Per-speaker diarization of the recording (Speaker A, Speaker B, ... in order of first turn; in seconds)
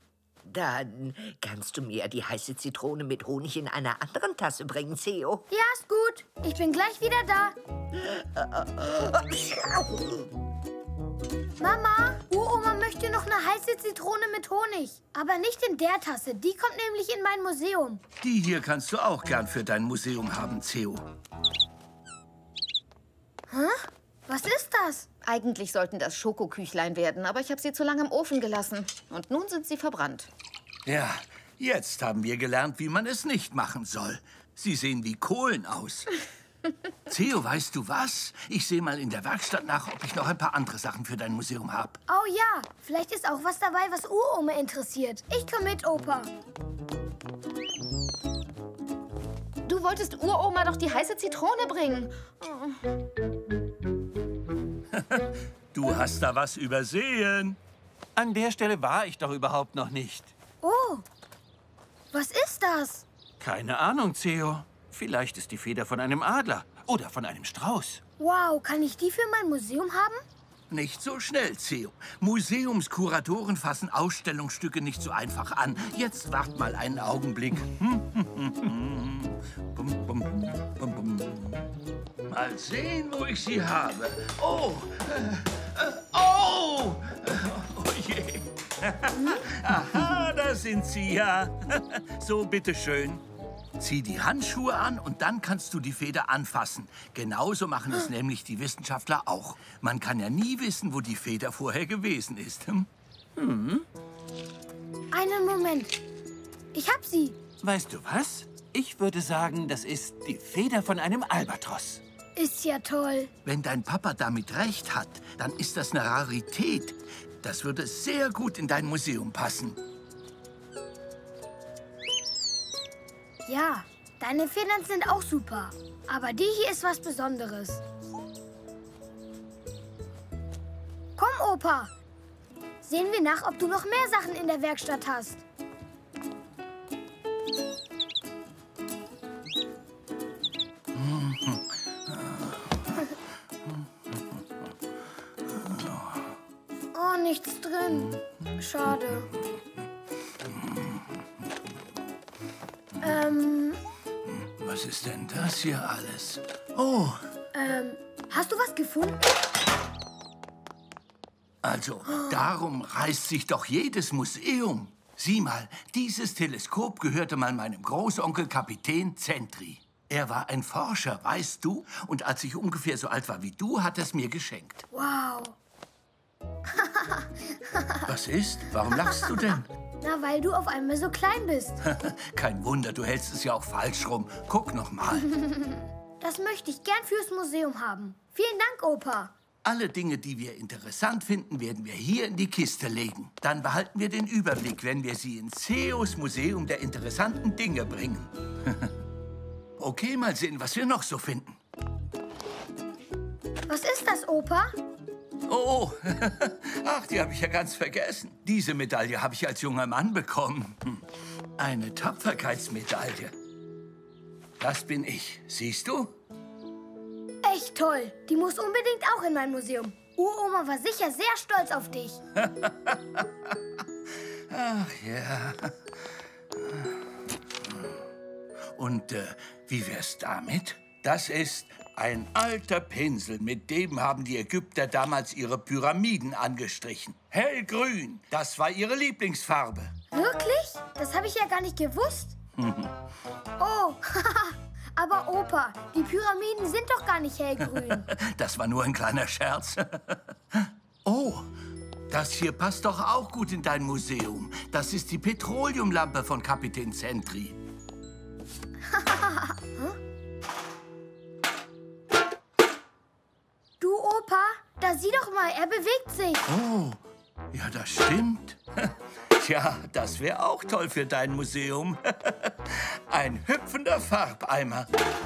Speaker A: 0.4-5.4, 8.0-10.3
Speaker B: 5.5-7.5, 11.6-18.0, 23.5-25.1, 42.1-46.3, 60.6-61.0, 62.1-63.0, 68.2-70.2, 105.1-106.0, 106.7-107.4, 112.4-113.3, 123.5-127.8, 131.2-131.9, 132.8-135.4, 146.9-149.3, 153.0-153.8, 157.5-159.2, 174.9-175.6, 180.0-181.8, 186.2-189.3, 203.7-204.7, 217.4-222.2, 240.1-242.4, 243.6-248.1, 263.8-266.4
Speaker C: 18.2-21.0, 30.9-36.2, 37.1-42.0, 55.0-57.6, 70.7-81.7, 82.3-93.2, 93.8-102.9, 113.5-119.8, 140.9-142.6, 145.5-146.3, 154.3-157.2, 161.6-174.8, 178.0-179.7, 181.8-185.3, 189.6-198.9, 199.8-201.6, 205.5-211.0, 211.6-213.3, 214.6-216.1, 222.4-223.3, 224.5-225.7, 228.8-239.9, 242.6-242.9, 248.1-251.5, 252.1-257.6, 266.5-267.0, 267.5-274.9
Speaker D: 25.2-30.3, 49.6-52.1
Speaker E: 58.1-60.3, 63.4-68.0, 103.4-103.9, 107.6-112.0